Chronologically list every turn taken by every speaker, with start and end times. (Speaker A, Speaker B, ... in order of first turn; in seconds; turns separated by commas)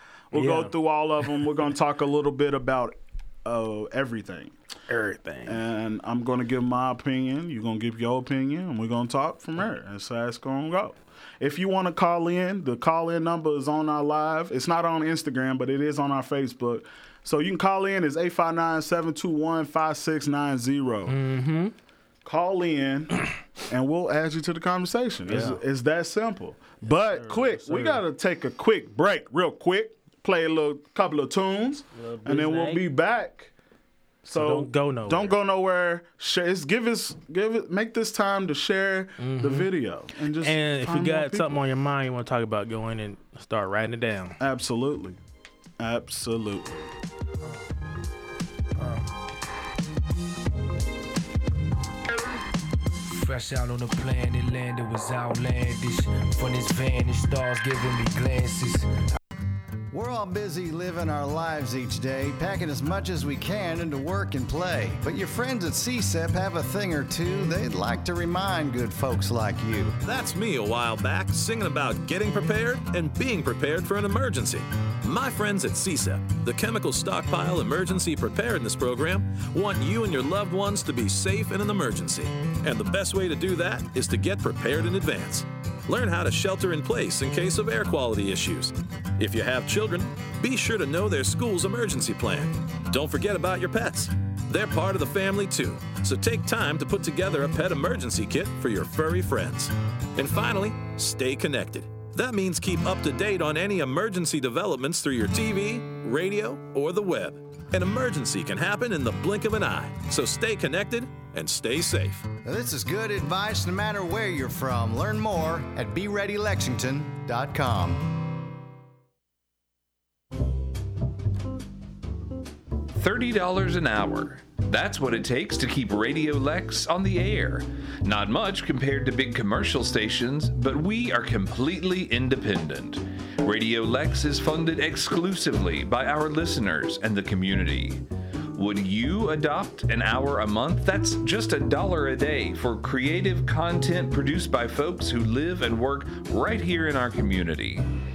Speaker A: 0.3-4.5, Speaker B: 0.3-0.8, Speaker B: 4.9-5.6, Speaker A: 5.4-21.2, Speaker B: 21.1-21.7, Speaker A: 22.2-33.5, Speaker B: 25.2-25.6, Speaker B: 26.8-28.0, Speaker B: 31.9-32.8, Speaker A: 34.2-41.6, Speaker B: 34.3-35.4, Speaker B: 39.2-39.7, Speaker B: 40.4-44.4, Speaker A: 44.4-45.2, Speaker A: 45.8-46.8, Speaker C: 53.1-58.9, Speaker D: 59.9-70.0, Speaker E: 70.0-112.3, Speaker D: 112.4-118.1, Speaker F: 123.0-138.0, Speaker F: 138.5-147.9